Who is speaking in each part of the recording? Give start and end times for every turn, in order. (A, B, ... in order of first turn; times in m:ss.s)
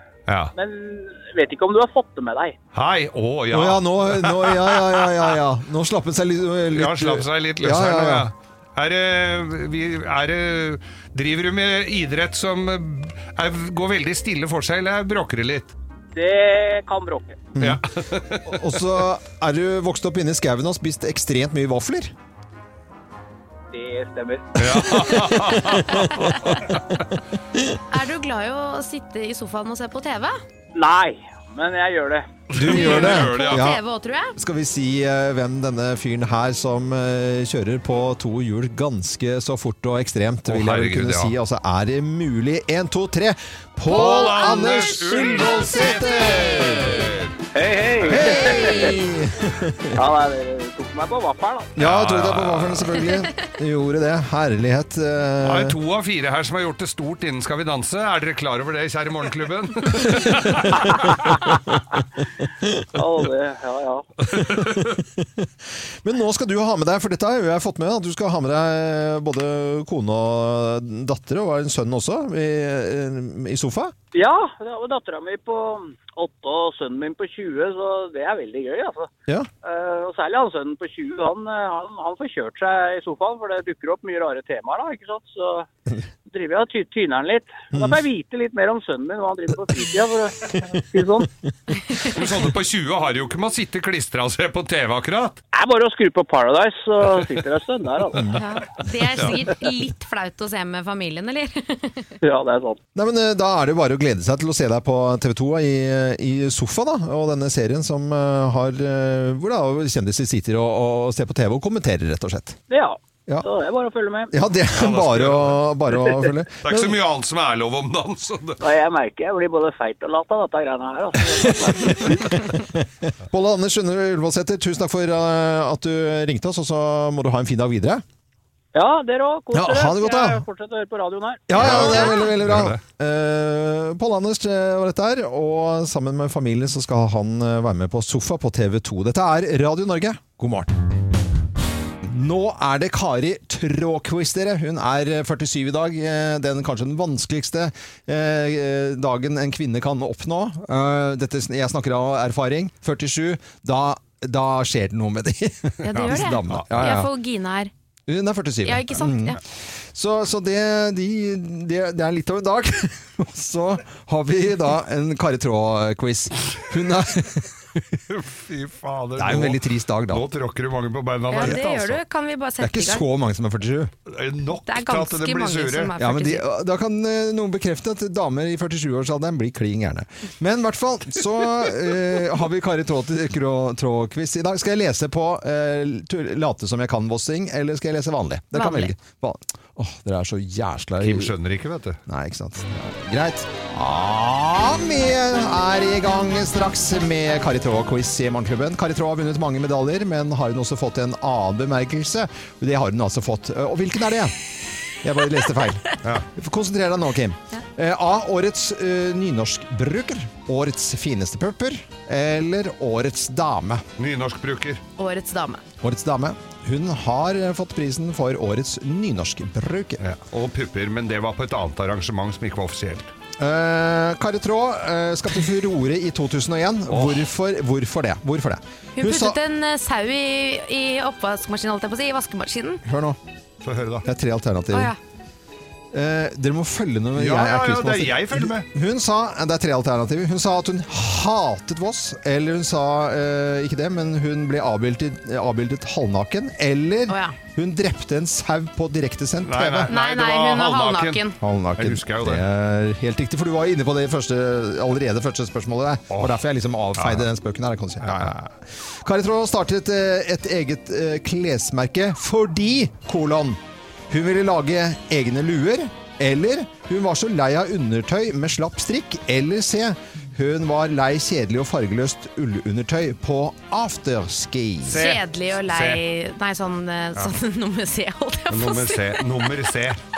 0:00.3-0:00.5 A
0:00.6-0:02.6 B
0:02.7-0:05.3 A
0:03.5-0:08.3 C
0:06.7-0:15.7 A
0:16.1-0:17.4 B
0:17.6-0:17.8 C
0:17.6-0:19.0 A
0:18.4-0:22.1 C
0:23.7-0:25.0 B
0:24.6-0:27.0 A
0:25.1-0:26.7 C
0:27.5-0:27.8 C
0:27.9-0:30.4 D
0:30.7-0:32.3 B
0:32.5-0:33.7 A
0:32.5-0:33.8 C
0:32.6-0:34.3 D
0:34.3-0:47.1 C
0:40.5-0:41.4 A
0:43.8-0:47.4 A
0:44.0-0:44.5 D
0:47.5-0:49.0 B
0:48.0-0:48.5 A
0:48.1-0:50.0 C
0:50.0-0:51.7 B
0:51.8-0:55.7 C
0:51.8-0:53.0 A
0:53.0-0:53.4 D
0:55.4-1:01.4 A
1:00.8-1:01.8 C
1:02.4-1:02.9 C
1:02.9-1:04.1 B
1:04.3-1:13.9 C
1:04.3-1:05.0 A
1:14.1-1:19.1 B
1:19.6-1:25.7 B
1:26.2-1:31.3 B
1:32.0-1:35.4 A
1:35.5-1:38.2 B
1:38.3-1:42.2 D
1:39.2-1:39.4 A
1:42.2-1:42.8 B
1:42.9-1:52.6 C
1:52.7-1:54.3 B
1:54.3-1:57.0 C
1:54.7-1:55.8 A
1:56.6-1:58.6 A
1:58.6-2:02.1 B
2:01.6-2:08.0 C
2:08.7-2:11.5 B
2:09.5-2:10.4 C
2:11.5-2:20.7 C
2:11.5-2:12.8 A
2:11.8-2:12.3 D
2:22.0-2:37.1 C
2:35.8-2:37.7 D
2:35.9-2:37.0 A
2:38.1-2:47.6 C
2:38.6-2:39.4 D
2:47.9-2:52.0 A
2:49.2-2:50.3 C
2:51.3-2:53.1 D
2:52.6-2:53.9 C
2:54.0-2:55.9 A
2:54.6-2:56.4 D
2:56.0-3:11.3 C
3:08.5-3:08.9 D
3:11.0-3:12.0 A
3:12.1-3:24.3 C
3:25.0-3:33.8 C
3:26.0-3:26.3 A
3:34.0-3:34.8 A
3:35.0-3:35.6 D
3:35.8-3:40.0 C
3:40.0-3:43.1 A
3:43.4-3:49.4 C
3:46.9-3:47.3 A
3:49.0-3:52.8 D
3:52.8-3:53.2 C
3:53.6-3:54.1 A
3:54.0-3:54.9 C
3:54.7-3:55.0 D
3:55.9-4:09.9 C
3:57.1-3:58.7 A
4:07.1-4:07.4 D
4:09.4-4:12.4 A
4:09.9-4:11.4 D
4:11.4-4:35.0 C
4:16.1-4:16.4 A
4:16.9-4:17.3 A
4:18.0-4:18.3 A
4:34.8-4:39.5 D
4:34.9-4:36.0 A
4:38.5-4:40.0 A